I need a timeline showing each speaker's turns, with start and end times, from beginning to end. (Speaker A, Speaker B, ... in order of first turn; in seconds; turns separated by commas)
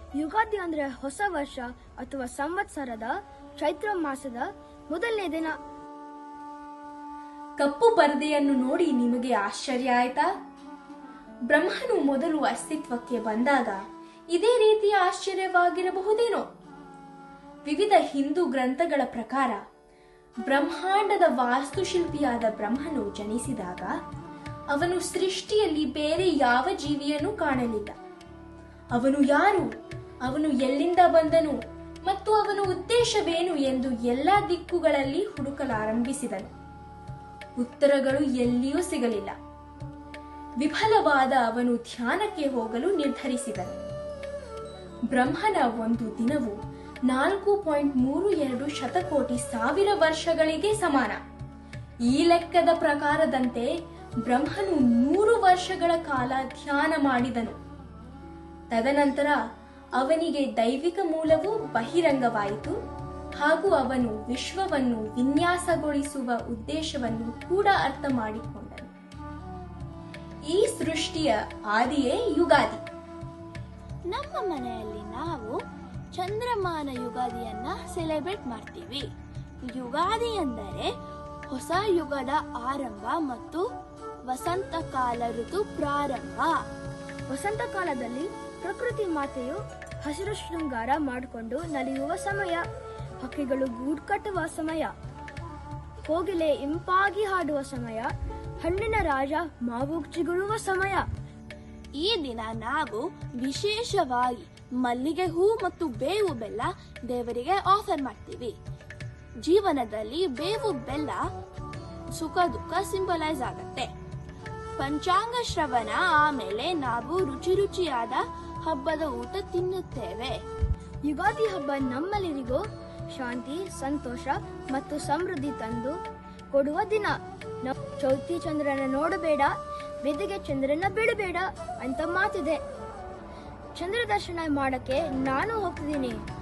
Speaker A: 0.2-5.6, Speaker B: 7.6-10.3, Speaker B: 11.5-16.5, Speaker B: 17.7-19.6, Speaker B: 20.5-23.9, Speaker B: 24.7-28.0, Speaker B: 28.9-29.7, Speaker B: 30.2-36.5, Speaker B: 37.6-39.4, Speaker B: 40.6-43.8, Speaker B: 45.1-46.6, Speaker B: 47.1-51.2, Speaker B: 52.1-53.7, Speaker B: 54.2-57.6, Speaker B: 58.7-59.4, Speaker B: 60.0-62.8, Speaker B: 63.4-68.9, Speaker B: 70.5-72.8, Speaker C: 74.1-75.6, Speaker C: 76.1-79.1, Speaker C: 79.6-80.9, Speaker C: 81.5-83.7, Speaker C: 84.3-86.6, Speaker A: 87.3-92.6, Speaker A: 93.2-94.9, Speaker A: 96.1-101.1, Speaker C: 102.0-108.5, Speaker C: 109.4-111.2, Speaker C: 112.1-113.9, Speaker C: 114.8-120.4, Speaker A: 121.1-126.0, Speaker A: 126.5-132.6, Speaker A: 133.8-136.2